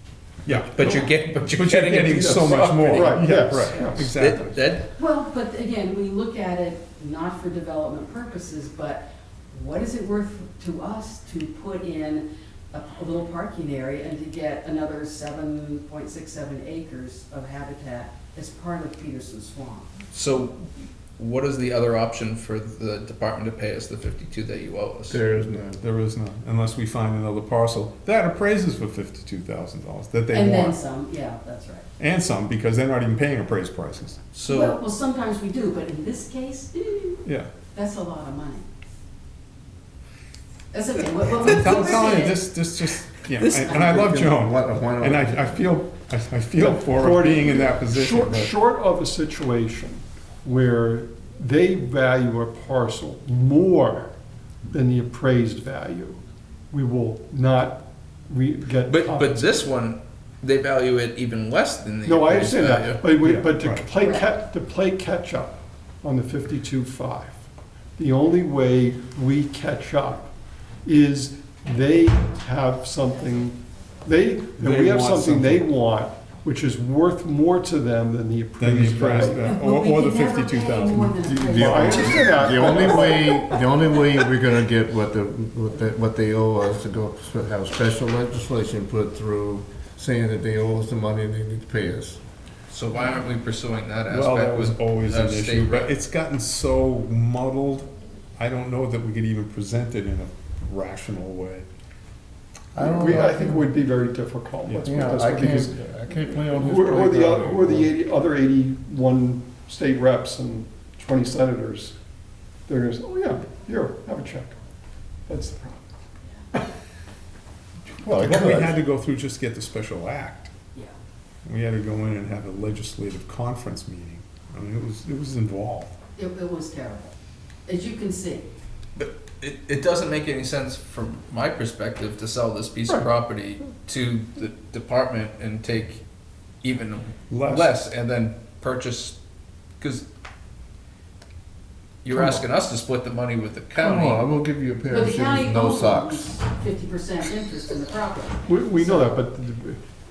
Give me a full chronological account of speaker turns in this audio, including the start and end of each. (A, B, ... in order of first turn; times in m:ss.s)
0:00.4-0:04.7 A
0:00.5-0:01.1 B
0:00.7-0:04.9 C
0:02.1-0:04.1 B
0:05.0-0:19.9 D
0:20.1-0:25.2 C
0:25.1-0:25.8 E
0:25.8-0:30.8 A
0:30.3-0:31.8 D
0:32.0-0:34.2 A
0:34.3-0:34.8 C
0:34.4-0:38.6 D
0:37.2-0:37.5 A
0:40.7-0:42.4 D
0:41.3-0:48.5 A
0:41.4-0:42.3 C
0:43.3-0:43.8 C
0:43.7-0:45.4 E
0:46.6-0:54.1 B
0:54.7-0:56.2 B
0:56.7-0:59.5 B
0:58.9-1:03.0 C
1:02.0-1:07.4 B
1:03.2-1:03.8 A
1:04.0-1:04.3 D
1:08.0-1:10.3 B
1:10.8-1:19.5 B
1:14.5-1:15.6 A
1:18.6-1:21.5 A
1:19.3-1:23.1 D
1:21.3-1:32.2 E
1:21.5-1:23.6 B
1:32.7-1:35.9 C
1:34.1-1:41.7 A
1:42.7-1:43.7 E
1:42.8-1:45.9 B
1:44.7-1:45.1 A
1:44.8-1:47.9 E
1:46.5-1:52.0 B
1:52.7-1:54.6 B
1:55.3-1:55.8 B
1:58.1-2:00.5 A
1:58.1-1:58.6 E
2:01.4-2:05.9 A
2:06.2-2:07.1 D
2:07.6-2:08.5 D
2:09.0-2:16.0 C
2:16.6-2:19.2 C
2:17.3-2:17.7 A
2:19.8-2:20.0 C
2:22.0-2:24.3 C
2:23.8-2:26.3 E
2:24.9-2:29.2 D
2:28.5-2:29.8 B